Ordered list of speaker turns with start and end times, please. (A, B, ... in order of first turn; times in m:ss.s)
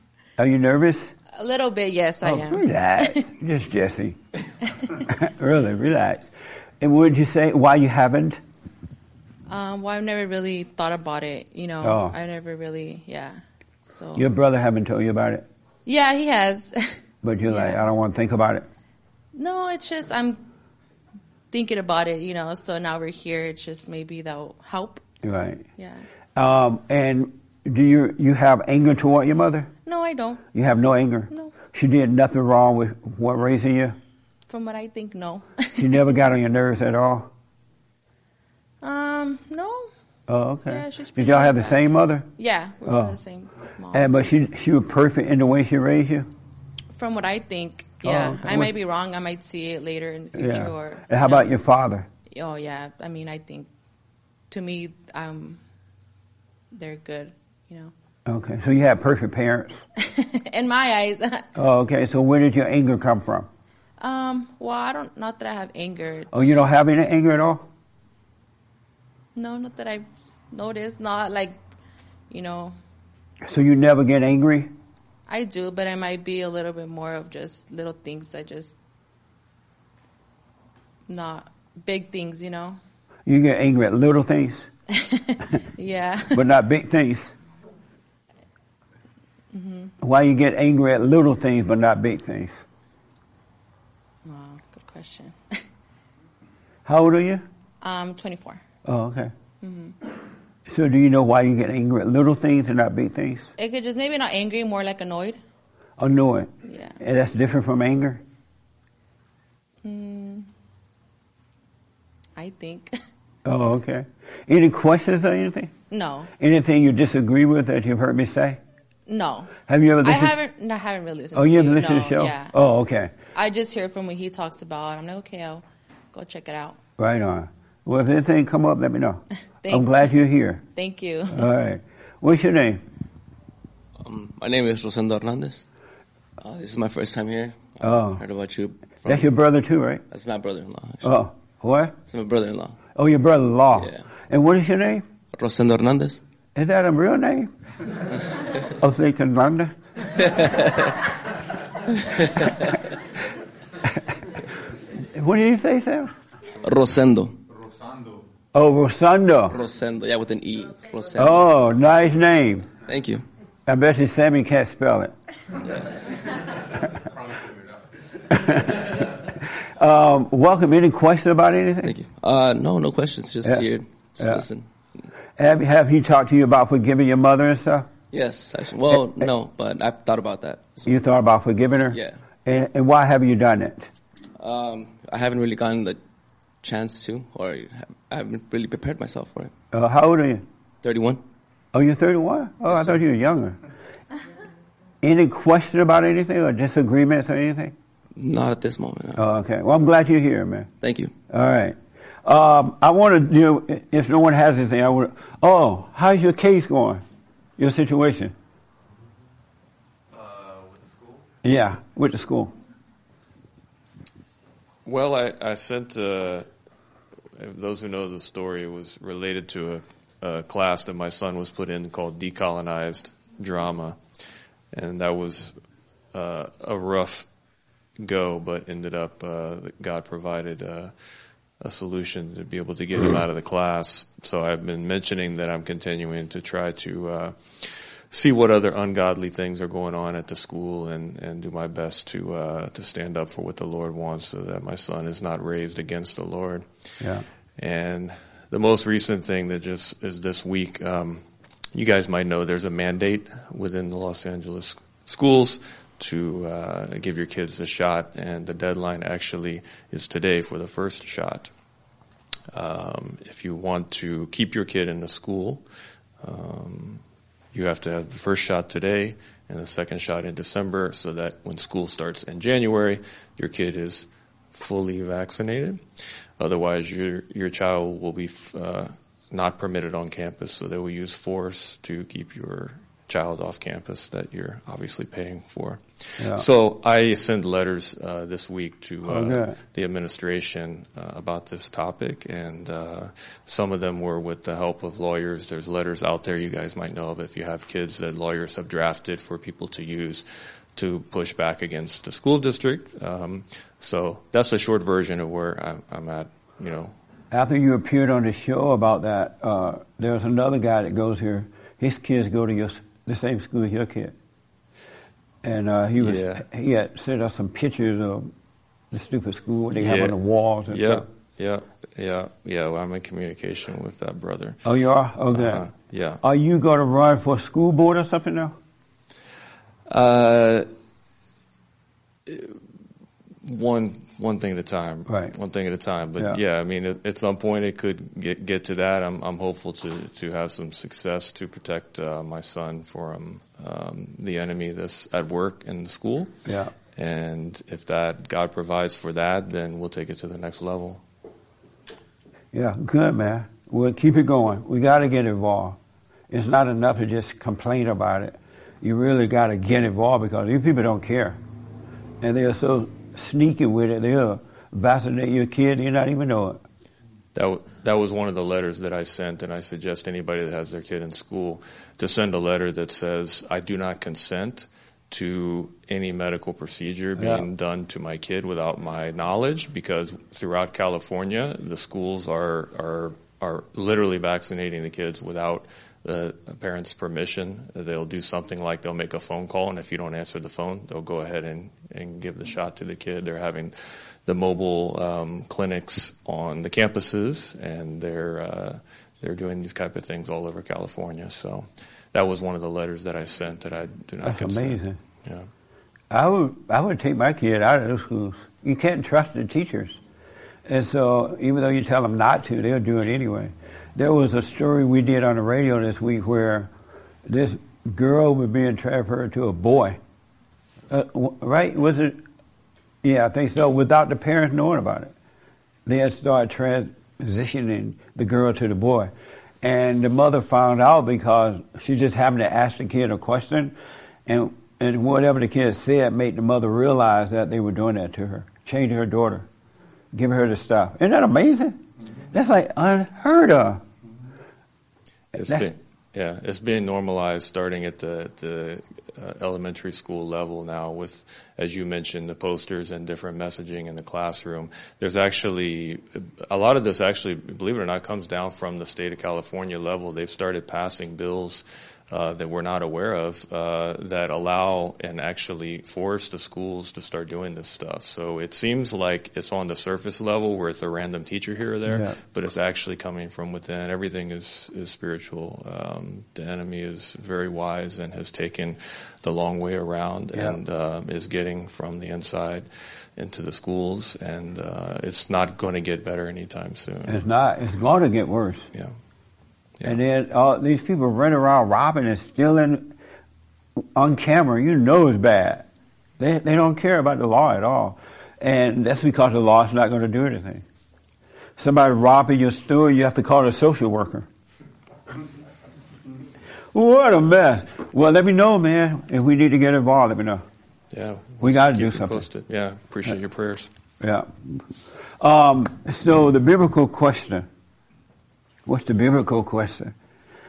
0:00.4-0:01.1 A
0:01.3-0:03.1 B
0:02.2-0:04.2 A
0:05.1-0:08.4 A
0:09.5-0:14.3 B
0:11.8-0:12.1 A
0:14.1-0:15.4 A
0:15.8-0:17.8 B
0:17.2-0:18.7 A
0:19.3-0:20.4 B
0:21.5-0:25.0 B
0:25.2-0:25.6 A
0:25.8-0:26.0 B
0:26.4-0:29.7 A
0:29.8-0:30.4 B
0:30.5-0:34.0 A
0:34.5-0:36.0 B
0:35.8-0:37.3 A
0:38.8-0:39.9 B
0:40.3-0:42.3 A
0:40.7-0:44.1 B
0:42.8-0:43.1 A
0:43.9-0:46.3 A
0:46.9-0:51.5 B
0:48.0-0:48.7 A
0:50.3-0:52.0 A
0:52.3-0:53.7 B
0:54.5-0:55.6 B
0:56.7-0:57.9 B
0:58.2-0:59.8 A
1:00.1-1:01.5 B
1:01.5-1:03.5 A
1:04.0-1:06.5 B
1:06.3-1:07.6 A
1:09.3-1:11.6 B
1:12.3-1:12.8 B
1:13.4-1:14.7 A
1:15.3-1:18.8 B
1:21.1-1:22.8 B
1:23.3-1:24.7 A
1:25.7-1:26.4 B
1:26.3-1:27.3 A
1:29.5-1:29.9 B
1:30.0-1:32.6 A
1:34.2-1:35.6 B
1:36.8-1:37.4 A
1:37.8-1:38.6 B
1:38.8-1:39.3 A
1:39.6-1:39.9 B
1:40.7-1:43.5 A
1:43.6-1:45.4 B
1:46.0-1:48.2 A
1:46.7-1:47.0 B
1:49.8-1:50.5 B
1:52.4-1:53.0 B
1:53.4-1:55.7 A
1:55.9-1:56.3 B
1:56.4-1:58.6 A
1:59.1-2:02.5 B
1:59.7-2:00.3 A
2:01.3-2:03.1 A
2:03.3-2:06.8 B
2:07.0-2:10.6 A
2:09.6-2:11.5 B
2:11.3-2:12.8 A
2:14.0-2:15.6 C
2:16.4-2:19.3 C
2:17.8-2:18.2 A
2:19.0-2:20.0 A
2:20.1-2:21.2 C
2:21.0-2:21.9 A
2:22.0-2:22.8 C
2:22.9-2:25.0 A
2:23.7-2:24.1 C
2:25.3-2:26.2 C
2:26.5-2:27.5 A
2:28.7-2:29.7 A
2:30.2-2:30.9 C
2:35.1-2:36.1 A
2:36.6-2:37.3 C
2:38.5-2:39.5 A
2:39.5-2:41.8 C
2:41.2-2:42.7 A
2:42.7-2:43.2 C
2:43.7-2:45.1 A
2:48.3-2:48.8 A
2:49.6-2:51.9 A
2:51.8-2:54.6 C
2:55.4-2:57.9 A
2:58.1-3:01.0 C
2:59.0-2:59.2 A
3:00.8-3:03.9 A
3:01.9-3:02.2 C
3:04.4-3:06.0 C
3:06.6-3:09.5 C
3:09.7-3:10.4 A
3:10.8-3:11.2 C
3:11.7-3:13.6 A
3:12.6-3:13.0 C
3:15.0-3:17.7 A
3:18.2-3:19.2 C
3:19.2-3:20.7 A
3:20.8-3:21.1 C
3:21.3-3:27.0 A
3:27.6-3:28.3 A
3:31.4-3:32.5 A
3:34.8-3:36.5 D
3:37.4-3:44.0 D
3:44.7-3:47.3 D
3:48.0-4:21.5 D
4:07.0-4:07.2 A
4:22.5-5:06.9 D
4:46.2-4:46.4 A
4:49.1-4:49.6 A
5:07.3-5:14.1 A
5:15.4-5:18.3 A
5:16.0-5:16.5 D
5:18.9-5:21.0 A
5:19.7-5:24.7 D
5:24.6-5:25.7 A
5:25.3-5:26.2 D
5:26.2-5:28.5 A
5:29.9-5:30.7 D
5:32.3-5:32.6 D
5:33.4-5:46.4 D
5:35.1-5:35.3 A
5:46.4-5:46.7 A
5:47.0-5:51.0 D
5:52.5-5:55.8 A
5:56.3-6:01.4 A
6:02.2-6:06.6 A
6:07.3-6:45.5 D
6:17.2-6:17.5 A
6:44.2-6:45.0 A
6:46.1-6:50.0 A
6:50.7-6:56.7 A
6:57.3-7:00.0 A
7:00.9-7:02.2 A
7:03.0-7:05.1 A
7:05.8-7:09.1 A
7:09.6-7:13.7 A
7:14.3-7:19.5 A
7:20.1-7:21.8 A
7:22.3-7:23.8 A
7:25.3-8:07.2 D
7:25.4-7:25.7 A
7:51.9-7:52.2 A
8:00.3-8:00.6 A
8:07.1-8:08.6 A
8:09.8-8:12.9 A
8:14.0-8:15.6 A
8:16.2-8:20.6 A
8:21.6-8:24.2 A
8:26.7-8:30.4 A
8:30.9-8:33.7 D
8:31.4-8:32.3 A
8:34.0-8:34.3 A
8:35.2-8:37.5 A
8:38.6-8:39.9 A